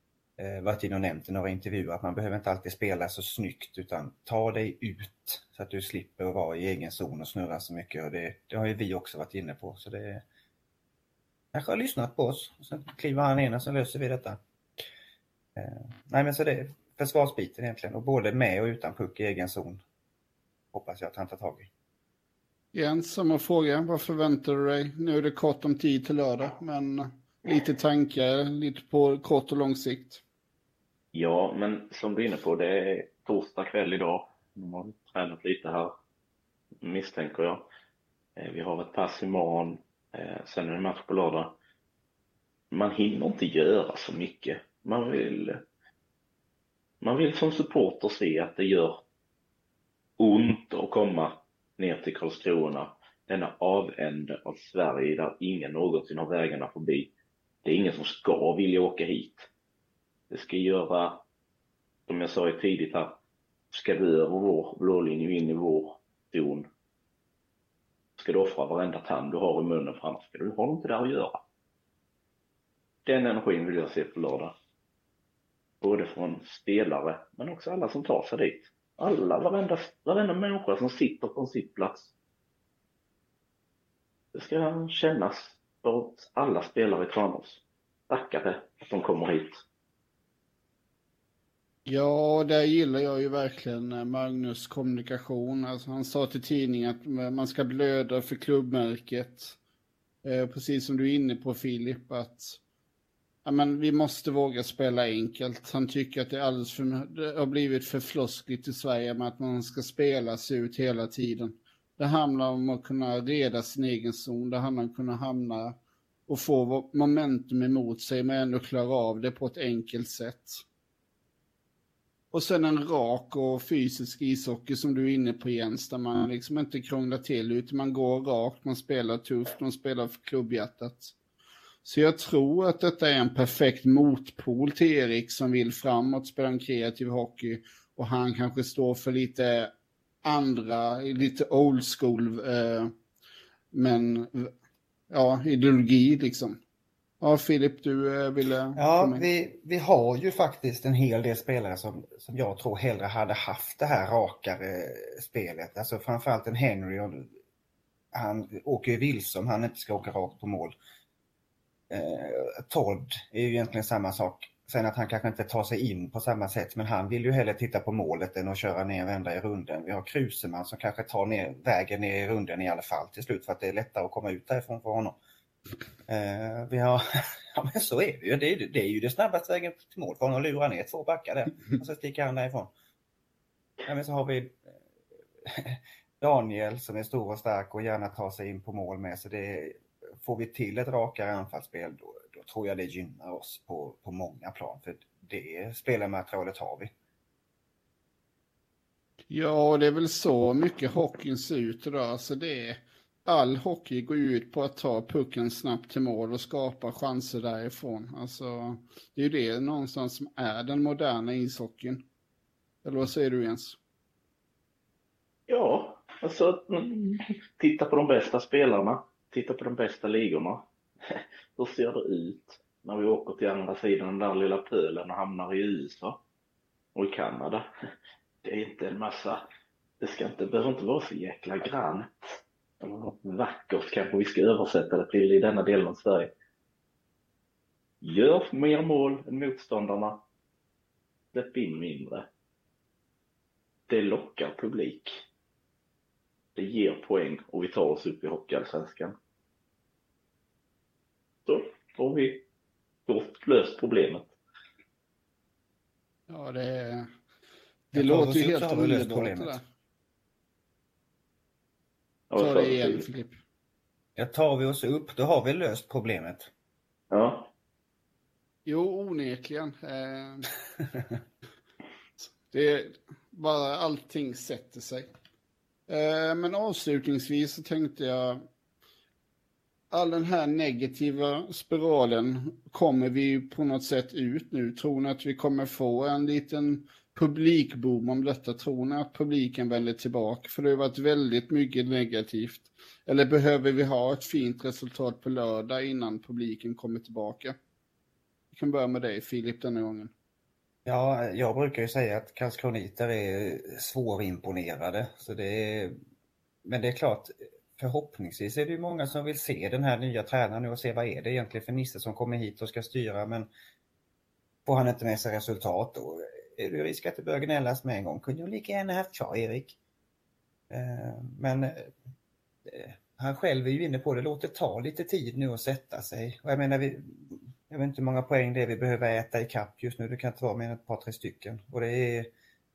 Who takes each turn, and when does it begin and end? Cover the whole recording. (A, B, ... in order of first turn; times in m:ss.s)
0:00.4-0:10.2 A
0:11.5-0:14.4 A
0:15.6-0:19.8 A
0:20.7-0:21.7 A
0:22.7-0:30.2 B
0:31.1-0:35.9 C
0:36.8-0:37.7 C
0:38.4-0:41.6 C
0:42.7-0:45.6 C
0:47.0-0:49.0 C
0:50.2-0:57.1 C
0:57.6-0:59.5 C
1:00.3-1:01.2 C
1:02.1-1:03.2 C
1:03.7-1:06.7 C
1:08.2-1:11.4 C
1:13.0-1:14.5 C
1:15.8-1:22.1 C
1:24.3-1:29.6 C
1:31.9-1:39.6 B
1:40.2-1:42.6 B
1:43.4-2:00.6 B
2:02.3-2:11.2 B
2:11.8-2:19.7 B
2:20.2-2:22.9 B
2:23.7-2:24.5 B
2:25.1-2:26.6 B
2:27.2-2:29.3 B
2:28.8-2:37.3 A
2:38.1-2:40.8 A
2:41.9-2:55.2 A
2:56.1-2:57.0 A
2:57.5-3:02.7 A
3:03.9-3:04.8 A
3:05.4-3:16.9 A
3:19.3-3:32.0 B
3:32.8-3:33.8 B
3:35.5-3:46.2 C
3:47.0-3:47.7 C
3:48.4-3:49.4 C
3:50.0-3:56.3 C
3:58.0-4:00.2 C
4:01.3-4:02.3 C
4:03.9-4:05.2 C
4:06.6-4:09.2 C
4:11.5-4:12.4 C
4:13.1-4:14.3 C
4:16.3-4:17.1 B
4:17.9-4:19.6 B
4:17.9-4:19.6 A
4:22.3-4:23.1 C
4:22.4-4:23.4 B
4:24.2-4:26.5 A
4:27.1-4:27.5 C
4:28.6-4:30.5 B
4:32.3-4:35.1 B
4:35.9-4:38.5 B
4:39.9-4:57.6 B
4:58.5-5:00.1 B
5:00.9-5:06.0 A
5:06.6-5:13.5 A
5:14.7-5:19.8 A
5:20.7-5:21.9 A
5:22.6-5:32.3 A